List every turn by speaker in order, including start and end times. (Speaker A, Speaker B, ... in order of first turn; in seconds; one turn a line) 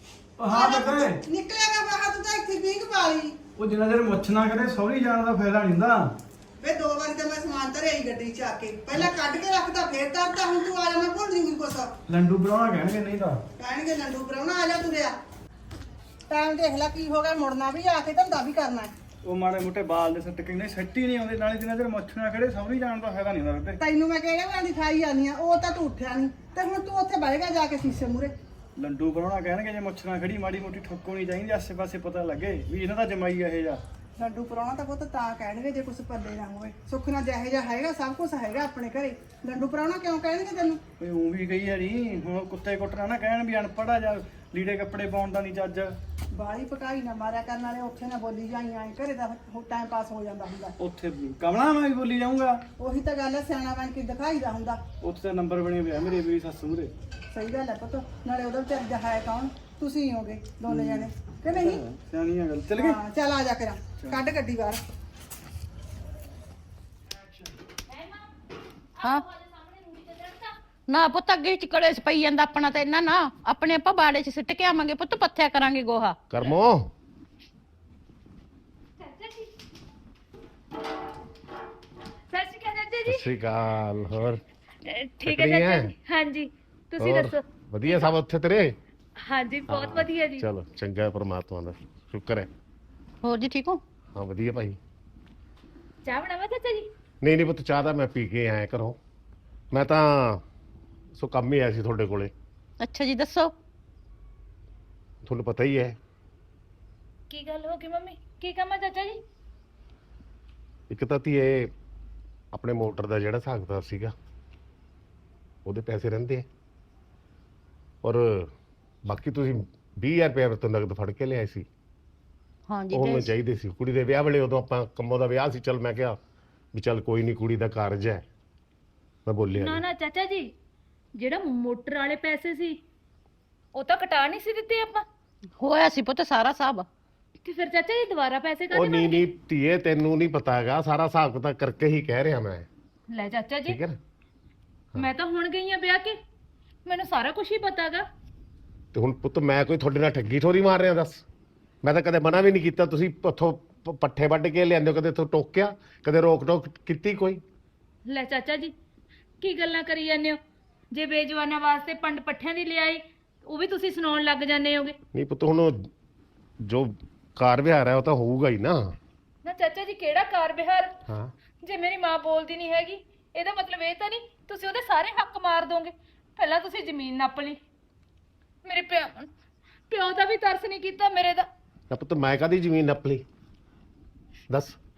Speaker A: 0.4-1.2
Speaker B: 0.5-3.3
Speaker A: 3.6-6.1
Speaker B: 6.6-11.9
Speaker A: 12.1-13.4
Speaker B: 13.6-15.1
Speaker B: 16.3-18.9
Speaker A: 19.2-23.8
Speaker B: 23.8-28.3
Speaker A: 28.8-33.8
Speaker B: 34.2-40.8
Speaker A: 41.0-46.0
Speaker B: 46.3-50.7
Speaker A: 50.8-52.6
Speaker B: 52.8-54.8
Speaker A: 55.0-56.9
Speaker B: 57.3-61.8
Speaker A: 60.7-63.0
Speaker B: 62.7-64.8
Speaker C: 67.9-68.2
Speaker C: 69.0-70.5
Speaker D: 70.9-76.2
Speaker E: 76.3-76.9
Speaker C: 79.0-79.5
Speaker C: 82.3-83.2
Speaker E: 83.0-84.4
Speaker C: 84.8-87.4
Speaker E: 85.2-85.9
Speaker E: 87.0-88.8
Speaker C: 89.2-90.4
Speaker E: 89.7-92.5
Speaker D: 93.2-93.8
Speaker E: 94.1-94.8
Speaker C: 96.0-96.9
Speaker E: 97.2-99.0
Speaker E: 99.7-100.4
Speaker E: 101.1-102.3
Speaker D: 102.8-103.5
Speaker E: 105.2-106.0
Speaker C: 107.3-109.2
Speaker E: 110.9-111.7
Speaker E: 112.5-114.1
Speaker E: 115.6-116.5
Speaker E: 118.0-118.5
Speaker E: 119.0-121.7
Speaker D: 122.7-123.3
Speaker E: 122.9-126.2
Speaker E: 126.7-128.2
Speaker E: 129.2-129.8
Speaker C: 129.6-130.5
Speaker C: 131.2-132.8
Speaker C: 133.8-135.0
Speaker D: 135.6-136.9
Speaker C: 137.4-139.3
Speaker E: 138.7-142.7
Speaker C: 143.1-143.8
Speaker E: 143.7-144.0
Speaker C: 144.9-146.2
Speaker C: 146.8-148.1
Speaker E: 148.9-151.2
Speaker E: 151.8-157.4
Speaker C: 158.1-158.7
Speaker C: 159.4-160.4
Speaker C: 160.9-164.9
Speaker E: 165.1-165.9
Speaker E: 166.6-169.0
Speaker C: 169.4-170.9
Speaker E: 171.1-171.3
Speaker C: 171.6-177.6
Speaker C: 178.6-179.3
Speaker C: 179.9-181.5
Speaker E: 181.9-183.2
Speaker E: 184.5-184.8